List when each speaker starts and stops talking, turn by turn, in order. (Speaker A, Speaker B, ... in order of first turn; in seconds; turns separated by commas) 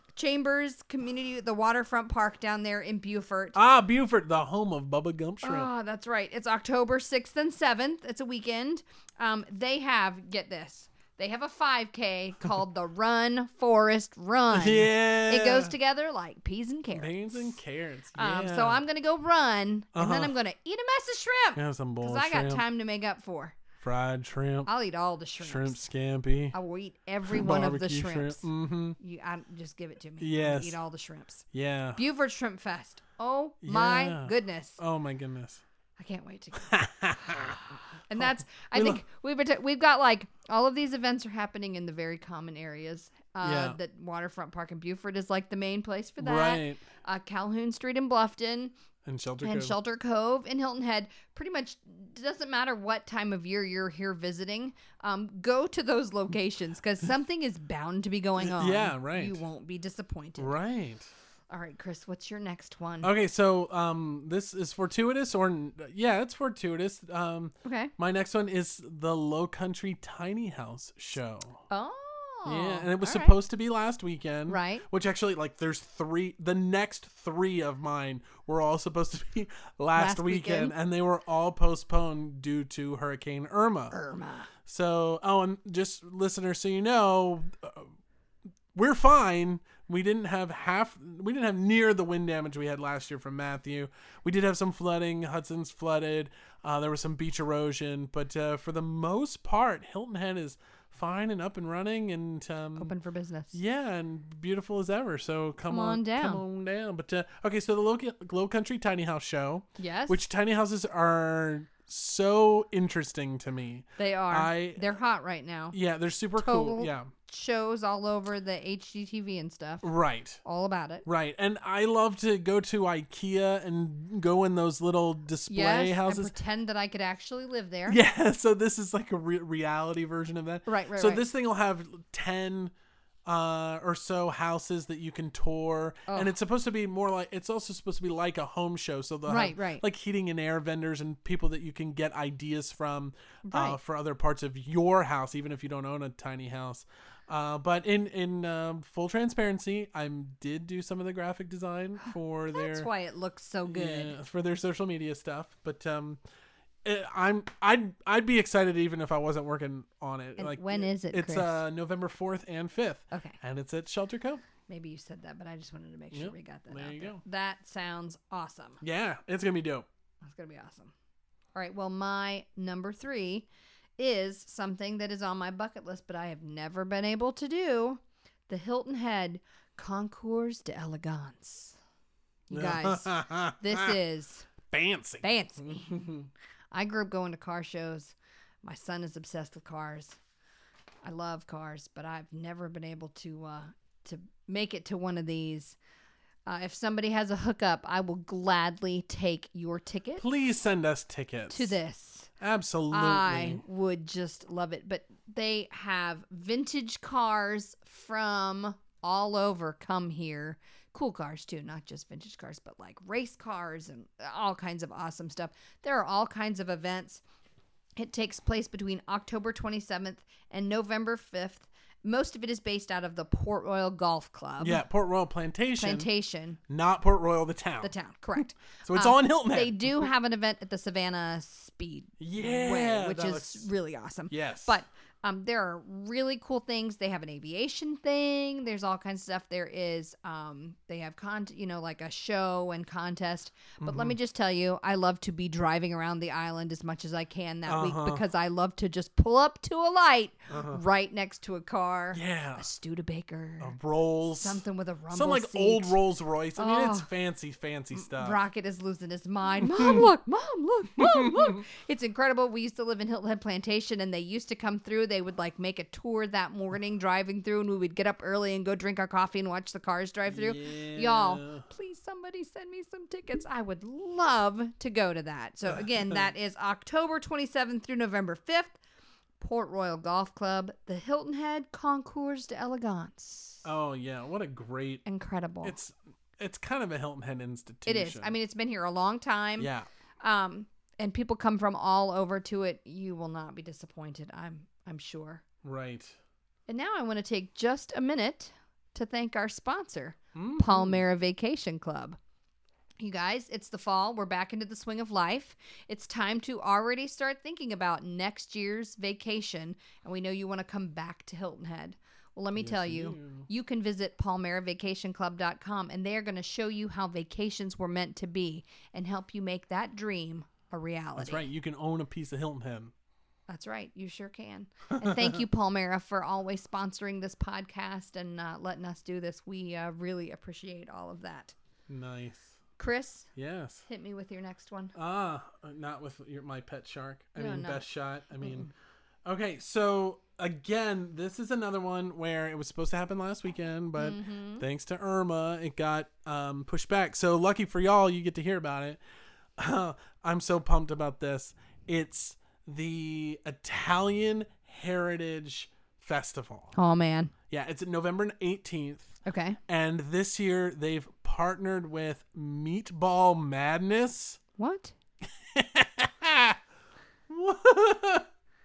Speaker A: 0.2-3.6, Speaker B: 3.5-5.7, Speaker A: 5.4-17.6, Speaker B: 14.5-15.7, Speaker B: 16.9-18.8, Speaker A: 18.1-23.6, Speaker B: 19.9-20.3, Speaker B: 21.6-22.6, Speaker B: 23.8-24.7, Speaker A: 24.7-25.8, Speaker B: 25.4-26.6, Speaker A: 26.5-28.5, Speaker B: 27.3-29.0, Speaker A: 29.0-31.4, Speaker B: 30.2-30.8, Speaker B: 31.5-32.0, Speaker A: 32.0-34.8, Speaker B: 33.6-35.6, Speaker A: 36.0-48.7, Speaker B: 36.6-37.6, Speaker B: 38.1-39.0, Speaker B: 43.4-43.8, Speaker B: 46.2-46.8, Speaker B: 49.0-49.8, Speaker A: 49.4-60.5, Speaker B: 58.4-59.4, Speaker B: 60.4-61.1, Speaker A: 61.5-63.1, Speaker B: 63.0-71.6, Speaker A: 67.6-67.9, Speaker A: 71.7-73.4, Speaker B: 72.5-84.0, Speaker A: 74.5-74.9, Speaker A: 80.0-80.7, Speaker A: 83.9-84.5, Speaker B: 84.7-87.9, Speaker B: 88.7-102.9, Speaker A: 102.8-103.6, Speaker B: 103.5-115.0, Speaker A: 105.7-106.4, Speaker A: 109.8-110.2, Speaker A: 114.0-115.8, Speaker B: 115.7-117.1, Speaker A: 116.4-119.8, Speaker B: 119.8-120.4, Speaker A: 120.4-121.1, Speaker B: 121.0-126.3, Speaker A: 125.5-128.0, Speaker B: 127.9-132.7, Speaker A: 130.7-131.3, Speaker B: 133.3-152.9, Speaker A: 136.1-136.3, Speaker A: 139.3-139.8, Speaker A: 143.4-143.8, Speaker A: 152.5-154.1, Speaker B: 153.7-156.2, Speaker B: 156.8-164.4, Speaker A: 160.4-161.6, Speaker A: 163.1-163.4, Speaker A: 164.7-168.8, Speaker B: 166.1-167.2, Speaker B: 168.8-169.9, Speaker A: 170.2-170.9, Speaker A: 171.5-173.5, Speaker A: 174.0-181.8, Speaker A: 182.5-184.5, Speaker B: 182.5-184.0, Speaker B: 184.7-186.3, Speaker A: 185.2-186.1, Speaker A: 186.7-190.2, Speaker A: 191.0-195.8, Speaker A: 196.5-200.3, Speaker B: 200.2-201.8, Speaker A: 201.5-202.3, Speaker B: 202.4-203.6, Speaker A: 202.9-217.2, Speaker A: 218.0-224.8, Speaker B: 224.6-226.1, Speaker A: 225.8-226.6, Speaker B: 226.7-227.9, Speaker A: 227.8-253.8, Speaker B: 228.6-230.1, Speaker B: 232.2-233.7, Speaker B: 234.3-234.8, Speaker B: 243.8-244.2, Speaker B: 247.7-248.2, Speaker B: 250.5-250.8, Speaker B: 252.1-252.7, Speaker B: 253.6-258.4, Speaker A: 254.3-256.0, Speaker A: 256.6-257.1, Speaker A: 257.9-278.8, Speaker B: 259.6-260.1, Speaker B: 261.0-261.6, Speaker B: 270.3-271.6, Speaker B: 275.7-276.3, Speaker A: 279.4-283.6, Speaker B: 283.6-285.0, Speaker A: 285.1-285.8, Speaker B: 285.6-288.3, Speaker A: 287.9-289.7, Speaker B: 289.6-289.9, Speaker A: 290.2-295.4, Speaker B: 295.6-296.2, Speaker A: 296.7-302.2, Speaker B: 300.4-301.0, Speaker A: 303.0-321.5, Speaker B: 312.6-313.5, Speaker B: 321.2-322.9, Speaker A: 323.5-331.6, Speaker B: 325.0-325.4, Speaker B: 331.9-332.6, Speaker A: 332.8-333.3, Speaker B: 333.4-333.9, Speaker A: 333.9-334.9, Speaker B: 334.9-338.7, Speaker A: 337.4-337.9, Speaker A: 338.4-338.7, Speaker B: 339.2-349.0, Speaker A: 344.0-344.6, Speaker B: 349.6-356.7, Speaker A: 356.8-357.3, Speaker B: 357.5-364.4, Speaker A: 359.2-359.6, Speaker A: 364.6-364.9, Speaker B: 365.5-366.6, Speaker B: 367.3-368.3